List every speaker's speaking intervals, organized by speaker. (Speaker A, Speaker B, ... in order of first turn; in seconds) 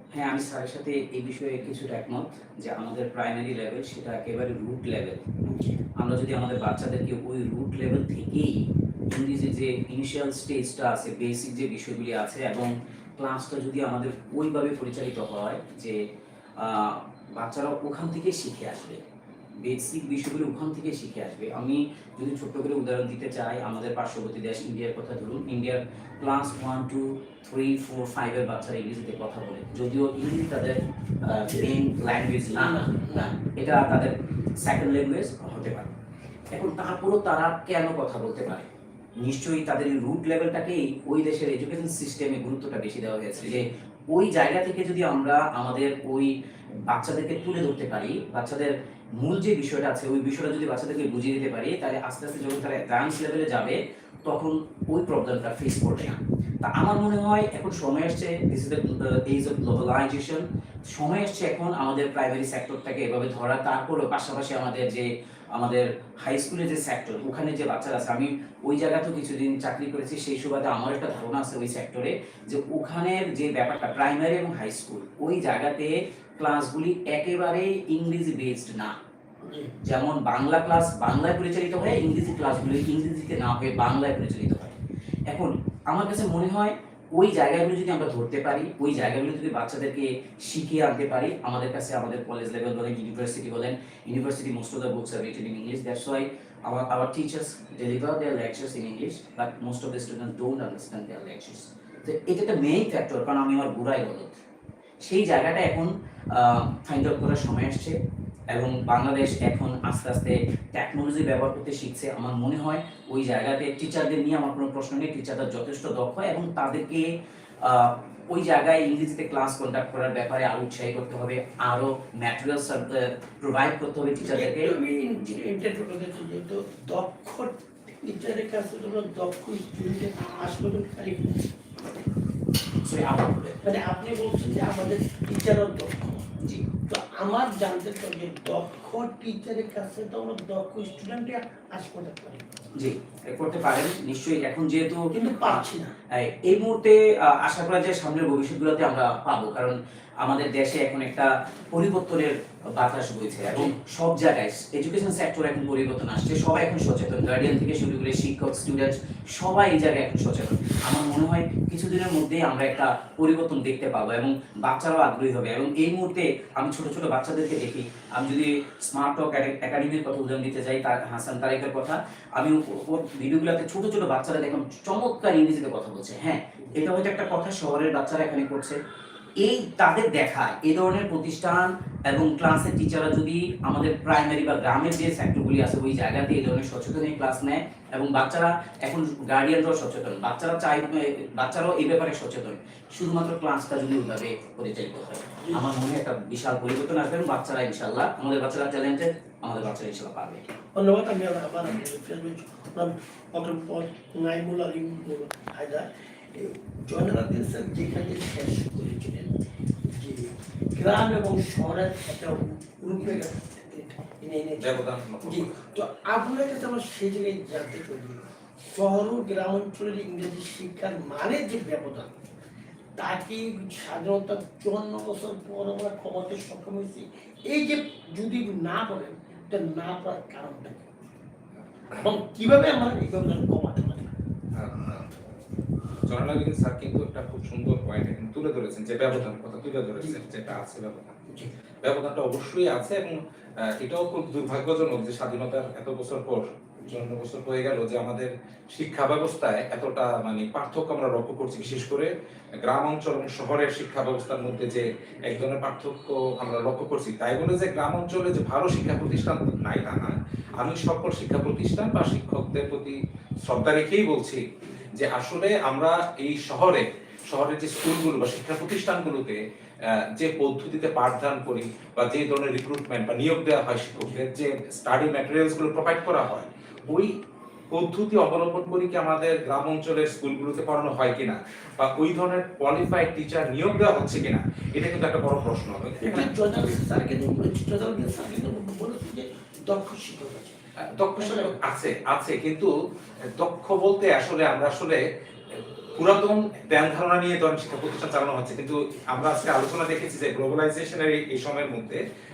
Speaker A: 0.1-5.2, 6.0-16.0, 16.6-19.0, 19.6-35.9, 36.5-38.7, 39.2-46.3, 46.9-79.0, 79.8-84.8, 85.3-104.4, 105.0-108.0, 108.5-117.1, 117.6-124.8, 132.8-133.6, 142.8-145.6, 146.2-178.8, 179.4-200.4
Speaker B: 5.5-5.8, 31.3-31.8, 32.5-33.4, 79.4-79.7, 124.2-131.5, 133.6-136.2, 136.9-142.4, 145.1-145.9, 176.6-176.8, 200.8-209.3, 209.9-222.1, 223.0-231.0, 231.9-234.1, 246.8-247.1, 264.6-264.9, 286.0-290.6, 291.2-291.6
Speaker C: 214.6-215.6, 234.6-235.1, 236.1-241.1, 241.8-252.1, 252.6-264.4, 264.9-269.4, 270.2-277.1, 277.7-286.3, 291.0-292.7, 293.4-295.0, 295.5-302.0